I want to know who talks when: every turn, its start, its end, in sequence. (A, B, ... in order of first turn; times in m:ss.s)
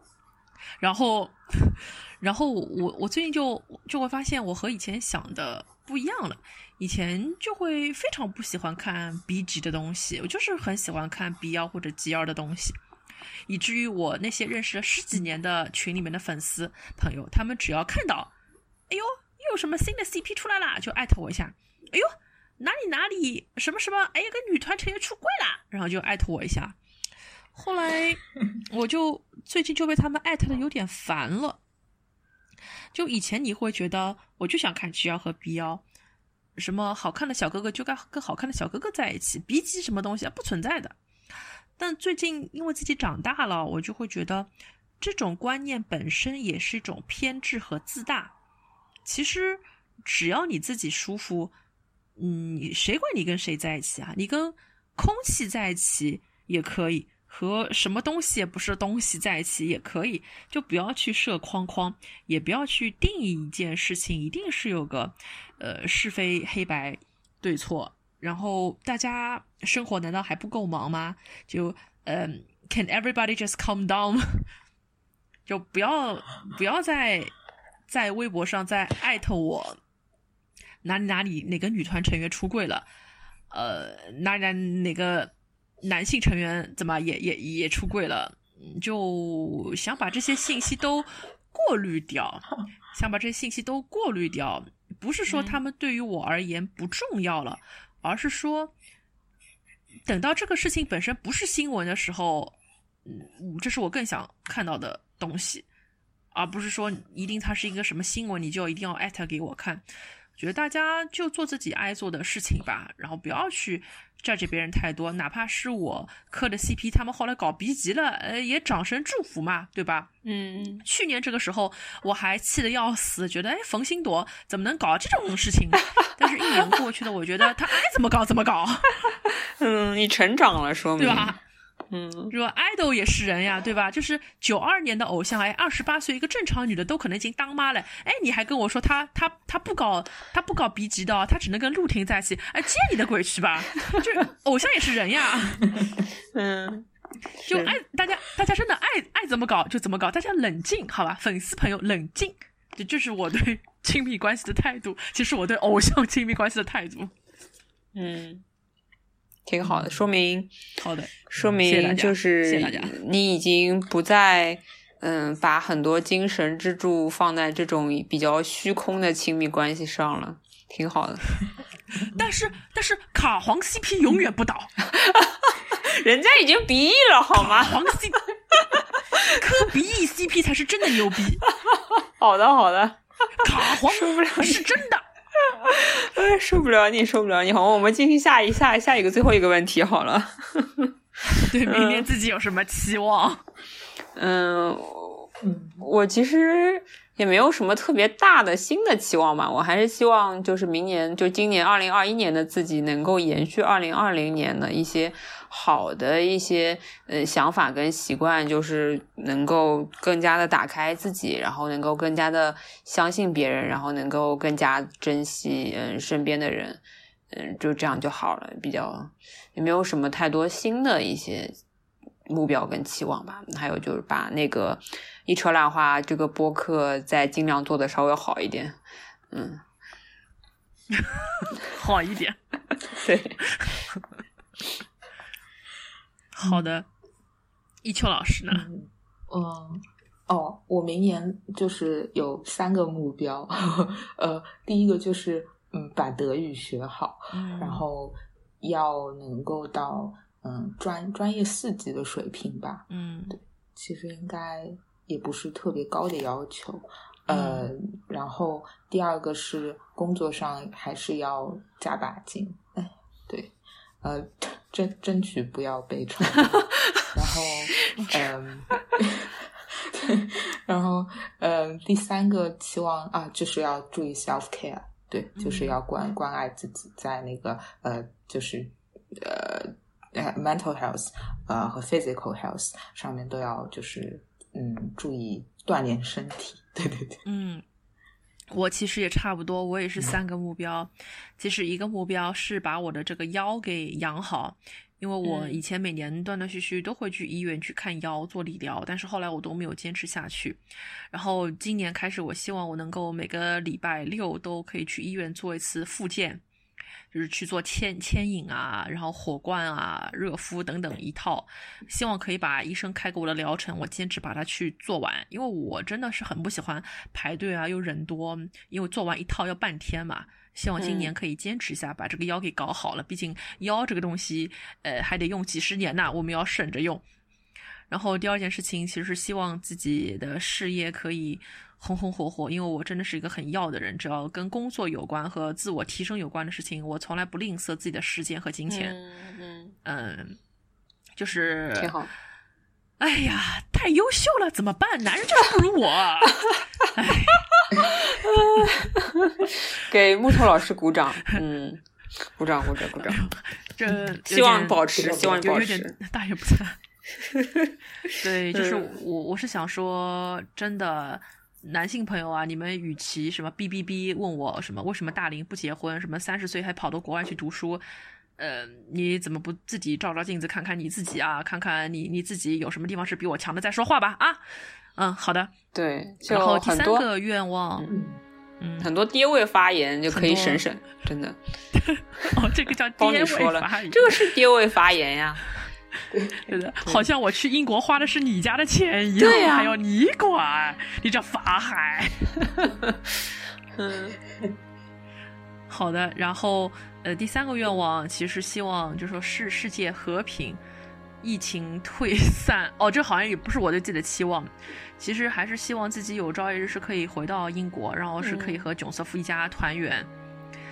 0:00.8-0:12.7 A
0:13.5-0:18.3 A
0:18.9-0:26.8 A
0:27.5-0:31.6 A
0:32.9-0:35.8 A
0:36.6-0:41.0 A
0:41.8-0:48.3 A
0:49.0-0:51.5 A
0:52.2-1:14.5 A
1:15.5-1:17.3 A
1:17.9-1:19.8 A
1:20.8-1:22.9 A
1:23.5-1:38.7 A
1:35.3-1:35.6 B
1:40.0-1:42.5 A
1:43.0-1:45.6 A
1:46.3-1:49.8 A
1:50.4-2:00.1 A
2:00.2-2:00.8 B
2:00.8-2:09.1 A
2:09.4-2:11.4 B
2:11.0-2:11.4 A
2:11.9-2:12.3 B
2:12.3-2:25.8 A
2:26.3-2:26.9 B
2:27.4-2:27.7 B
2:27.4-2:37.1 A
2:37.9-2:38.4 B
2:39.5-2:40.5 B
2:40.8-2:42.9 A
2:41.3-2:51.2 B
2:52.0-2:54.7 A
2:54.9-2:57.9 B
2:57.3-2:58.2 A
2:58.6-2:59.3 B
2:59.2-3:01.4 A
3:01.6-3:03.0 B
3:03.4-3:05.0 A
3:03.5-3:04.8 B
3:05.4-3:10.9 B
3:11.2-3:13.4 A
3:11.6-3:12.1 B
3:14.2-3:41.5 B
3:15.4-3:15.8 C
3:42.3-3:48.8 B
3:49.3-3:49.6 B
3:50.9-3:52.4 A
3:52.9-3:53.4 B
3:53.4-3:53.7 A
3:56.3-3:56.9 A
3:57.8-3:58.7 A
3:58.5-4:47.2 C
4:07.3-4:07.8 A
4:12.9-4:13.4 A
4:17.3-4:17.7 A
4:35.4-4:35.8 A
4:47.2-4:47.6 A
4:48.5-5:06.4 A
4:55.2-4:55.6 B
5:07.1-5:27.0 A
5:20.8-5:21.1 B
5:27.9-5:38.9 A
5:38.7-5:39.7 B
5:39.8-5:40.4 A
5:41.2-5:41.9 A
5:41.8-5:42.1 B
5:43.0-5:47.5 A
5:47.8-5:53.2 B
5:53.0-5:56.8 A
5:54.3-5:55.9 B
5:55.0-5:55.6 C
5:57.2-5:57.7 B
5:58.2-6:07.8 A
5:58.5-5:58.9 B
6:08.4-6:14.4 A
6:15.0-6:15.5 A
6:15.7-6:17.0 B
6:16.3-6:17.9 A
6:17.9-6:18.2 C
6:18.6-6:18.9 A
6:18.8-6:21.4 B
6:20.1-6:20.6 A
6:21.7-6:24.3 A
6:23.0-6:25.4 B
6:26.1-6:26.5 C
6:26.4-6:32.3 A
6:29.2-6:29.8 B
6:32.6-6:33.0 B
6:33.8-6:34.2 B
6:35.7-6:40.6 A
6:41.2-6:50.1 A
6:48.2-6:48.6 B